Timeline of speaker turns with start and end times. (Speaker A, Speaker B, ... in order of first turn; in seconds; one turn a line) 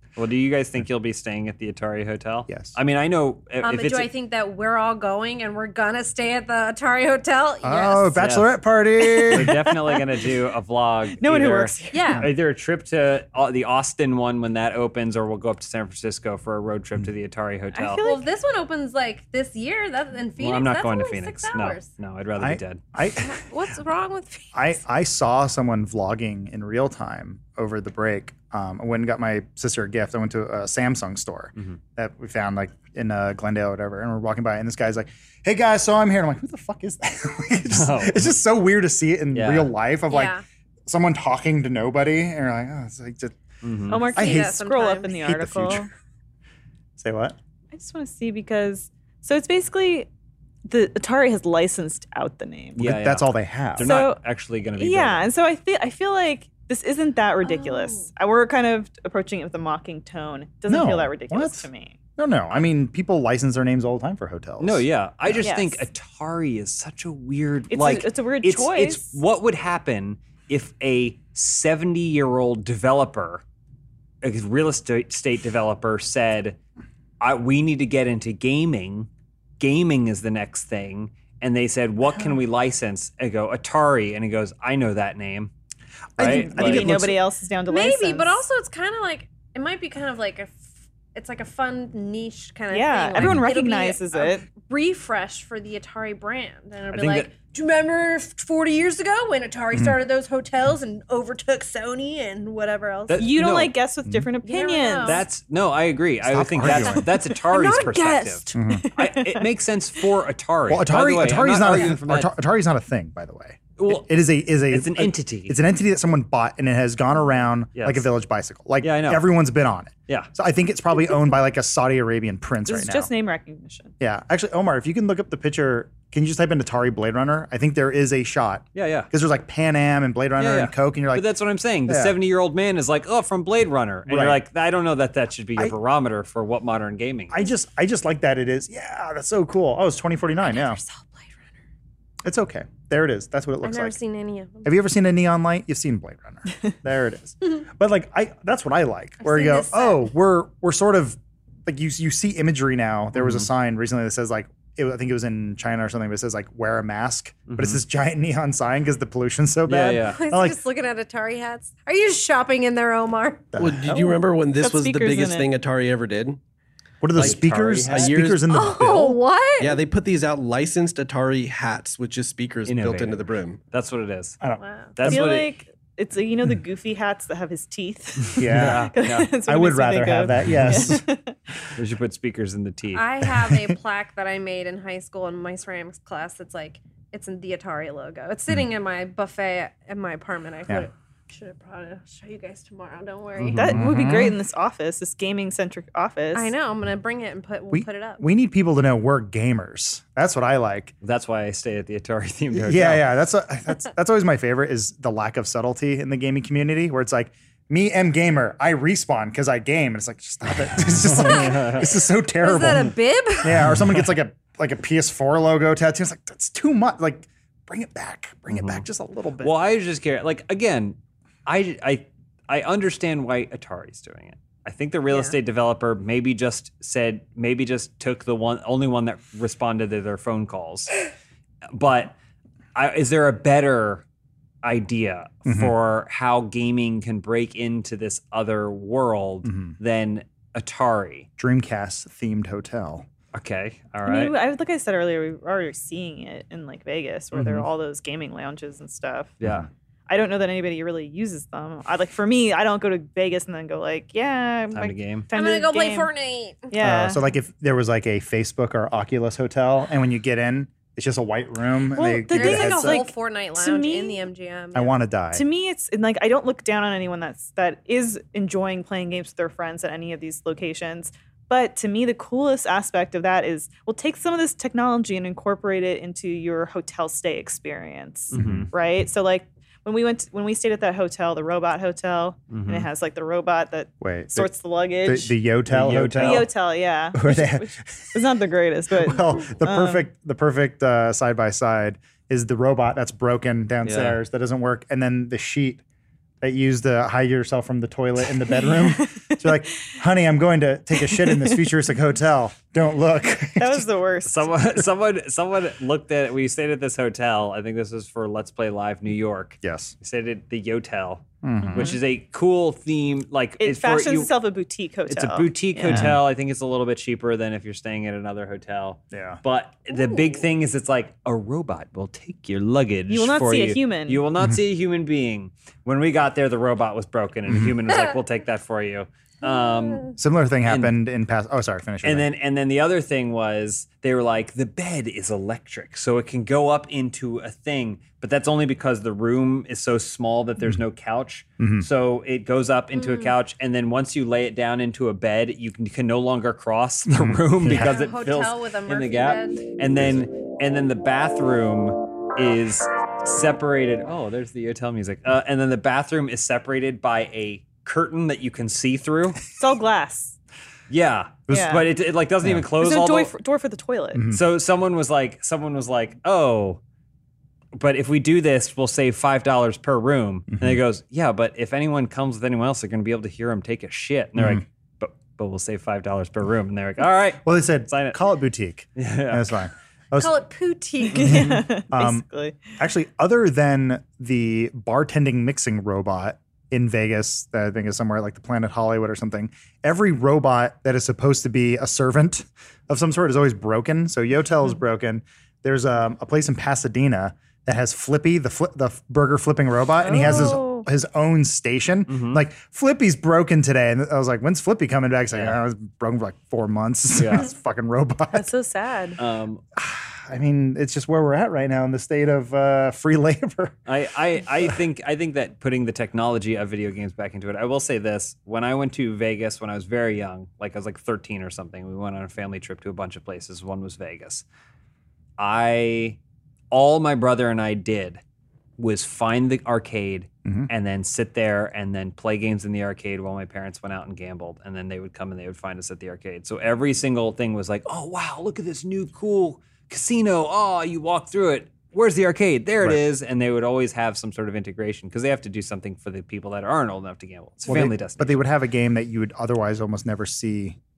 Speaker A: 0.2-4.1
Speaker B: 2.5-2.8
Speaker C: 3.6-8.2
Speaker B: 7.6-9.6
Speaker A: 8.2-8.5
Speaker A: 9.3-18.0
Speaker D: 11.2-12.2
Speaker C: 11.9-12.3
Speaker D: 17.7-18.3
Speaker C: 18.0-21.9
Speaker A: 20.4-22.8
Speaker B: 22.4-23.4
Speaker C: 23.2-24.6
Speaker B: 24.5-43.4
Speaker A: 37.7-38.3
Speaker A: 39.3-39.7
Speaker C: 40.1-40.4
Speaker A: 43.6-44.1
Speaker D: 43.9-45.9
Speaker B: 44.1-44.6
Speaker C: 44.2-45.2
Speaker B: 45.1-45.9
Speaker B: 47.0-47.4
Speaker D: 47.7-50.1
Speaker D: 50.7-52.8
Speaker A: 52.8-55.3
Speaker B: 52.8-53.9
Speaker D: 53.8-54.2
Speaker D: 54.8-62.0
Speaker C: 57.4-58.1
Speaker B: 60.7-65.5
Speaker A: 64.6-73.4
Speaker D: 65.4-65.8
Speaker D: 67.7-69.2
Speaker A: 74.2-76.6
Speaker A: 77.2-85.5
Speaker A: 86.2-87.0
Speaker B: 86.2-87.2
Speaker D: 86.2-88.4
Speaker C: 87.7-90.6
Speaker C: 91.1-103.2
Speaker D: 92.7-94.5
Speaker A: 96.9-97.3
Speaker B: 99.7-100.0
Speaker A: 103.1-103.8
Speaker D: 103.2-105.2
Speaker C: 104.4-105.2
Speaker A: 105.0-112.3
Speaker B: 106.2-107.1
Speaker C: 107.5-108.6
Speaker D: 107.6-107.8
Speaker B: 108.5-108.8
Speaker D: 108.7-109.5
Speaker B: 110.7-123.1
Speaker A: 113.8-114.1
Speaker A: 114.7-115.6
Speaker A: 117.8-118.1
Speaker A: 118.8-119.3
Speaker D: 122.7-123.9
Speaker B: 124.0-131.3
Speaker A: 128.7-129.1
Speaker A: 130.4-137.4
Speaker B: 131.9-132.2
Speaker B: 134.1-134.4
Speaker B: 137.3-140.8
Speaker C: 140.4-141.3
Speaker B: 142.2-144.0
Speaker C: 143.6-144.7
Speaker B: 144.6-160.6
Speaker C: 149.2-150.1
Speaker A: 153.2-153.5
Speaker A: 157.5-157.8
Speaker A: 159.7-160.2
Speaker C: 160.1-163.5
Speaker B: 163.5-164.2
Speaker E: 163.6-166.4
Speaker D: 164.6-165.5
Speaker B: 167.0-169.2
Speaker E: 167.2-168.5
Speaker A: 167.2-168.2
Speaker C: 168.5-169.8
Speaker E: 169.6-173.6
Speaker A: 172.7-174.4
Speaker B: 174.4-175.3
Speaker C: 174.6-174.9
Speaker A: 174.9-175.5
Speaker D: 175.1-181.4
Speaker B: 178.4-181.0
Speaker A: 178.4-179.3
Speaker A: 181.8-183.1
Speaker C: 182.9-193.9
Speaker B: 183.3-183.7
Speaker A: 193.4-193.8
Speaker D: 193.5-196.5
Speaker B: 193.7-194.4
Speaker C: 196.3-198.2
Speaker B: 197.7-200.9
Speaker A: 201.0-203.1
Speaker B: 202.5-219.6
Speaker A: 210.8-211.9
Speaker C: 211.2-213.7
Speaker A: 218.5-218.8
Speaker A: 219.4-230.9
Speaker C: 225.1-225.3
Speaker A: 231.7-232.2
Speaker A: 232.8-234.1
Speaker A: 234.6-241.3
Speaker B: 235.4-235.7
Speaker B: 239.4-239.8
Speaker B: 241.4-243.1
Speaker A: 243.3-244.3
Speaker D: 244.1-249.4
Speaker A: 247.4-247.6
Speaker A: 249.4-249.7
Speaker B: 249.4-249.7
Speaker D: 250.1-256.1
Speaker A: 254.7-255.3
Speaker C: 255.3-256.7
Speaker D: 256.7-257.2
Speaker B: 256.8-263.1
Speaker D: 261.9-264.3
Speaker C: 262.3-264.9
Speaker B: 264.7-265.4
Speaker D: 265.3-285.4
Speaker B: 278.3-278.7
Speaker A: 278.3-278.7
Speaker A: 282.5-282.9
Speaker B: 284.0-284.5
Speaker B: 285.0-286.5
Speaker A: 285.7-286.5
Speaker D: 286.2-290.1
Speaker B: 287.1-287.7
Speaker B: 288.9-295.8
Speaker A: 293.8-294.2
Speaker B: 296.4-303.9
Speaker D: 298.6-299.4
Speaker D: 301.1-301.7
Speaker D: 303.6-304.6
Speaker A: 304.2-314.3
Speaker B: 309.6-309.9
Speaker B: 311.4-312.0
Speaker D: 311.7-312.0
Speaker D: 313.6-316.1
Speaker A: 315.1-330.9
Speaker B: 315.9-316.2
Speaker B: 319.1-319.4
Speaker D: 323.1-324.2
Speaker B: 327.5-327.7
Speaker C: 329.5-330.1
Speaker B: 330.2-332.3
Speaker A: 332.0-359.4
Speaker B: 341.6-341.9
Speaker C: 342.9-343.4
Speaker B: 347.1-348.0
Speaker C: 347.7-349.6
Speaker D: 359.6-360.4
Speaker A: 360.9-363.3
Speaker D: 361.5-361.9
Speaker D: 362.8-364.3
Speaker B: 364.1-364.4
Speaker A: 364.3-366.8
Speaker A: 367.7-378.2
Speaker B: 370.5-370.8
Speaker B: 374.4-374.6
Speaker B: 377.4-380.3
Speaker A: 379.0-379.6
Speaker C: 380.2-381.6
Speaker D: 381.1-382.6
Speaker B: 381.2-408.5
Speaker D: 400.0-400.9
Speaker A: 402.1-402.4
Speaker A: 405.3-405.6
Speaker A: 407.1-407.5
Speaker D: 408.3-409.2
Speaker A: 409.2-409.6
Speaker B: 409.8-413.8
Speaker A: 413.9-424.4
Speaker A: 425.4-426.2
Speaker A: 426.7-428.2
Speaker A: 428.8-448.4
Speaker B: 447.7-450.8